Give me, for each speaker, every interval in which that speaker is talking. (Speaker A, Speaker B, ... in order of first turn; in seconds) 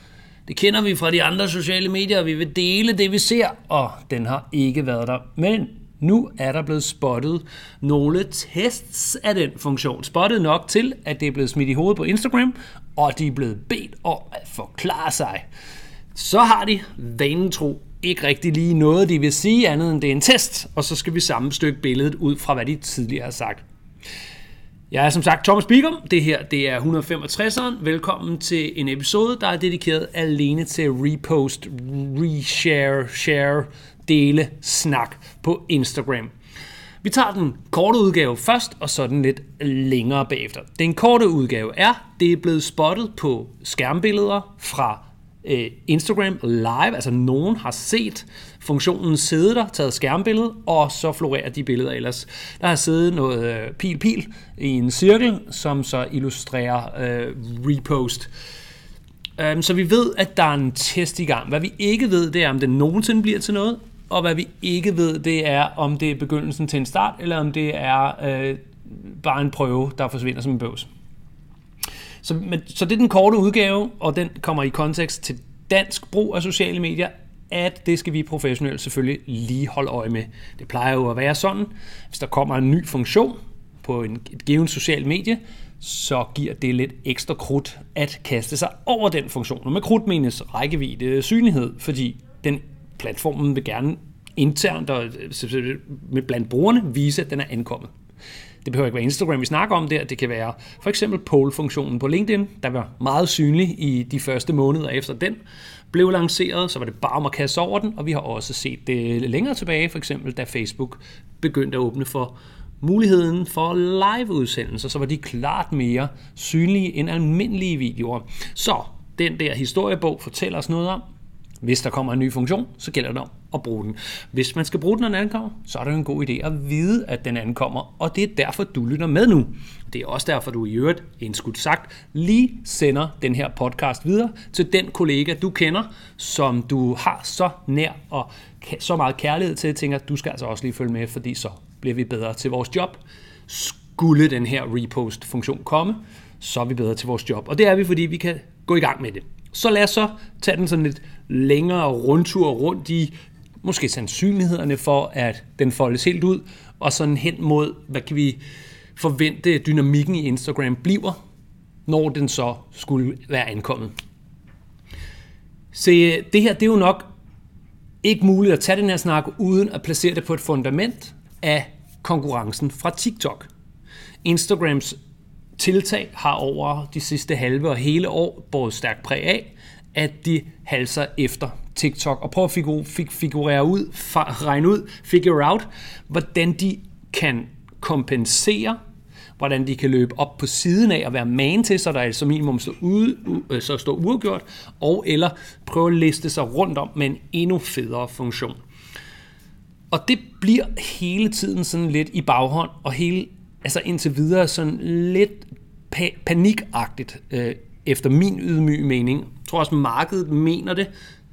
Speaker A: 0.5-15.5, 16.1-23.6, 24.9-36.3, 37.0-58.3, 59.4-70.9, 72.2-97.9, 98.6-105.4, 105.9-121.0, 121.6-153.1, 153.6-158.4, 159.0-161.2, 161.9-163.9, 165.7-167.0, 168.0-173.5, 174.2-175.0, 175.6-188.8, 189.4-198.6, 199.9-210.9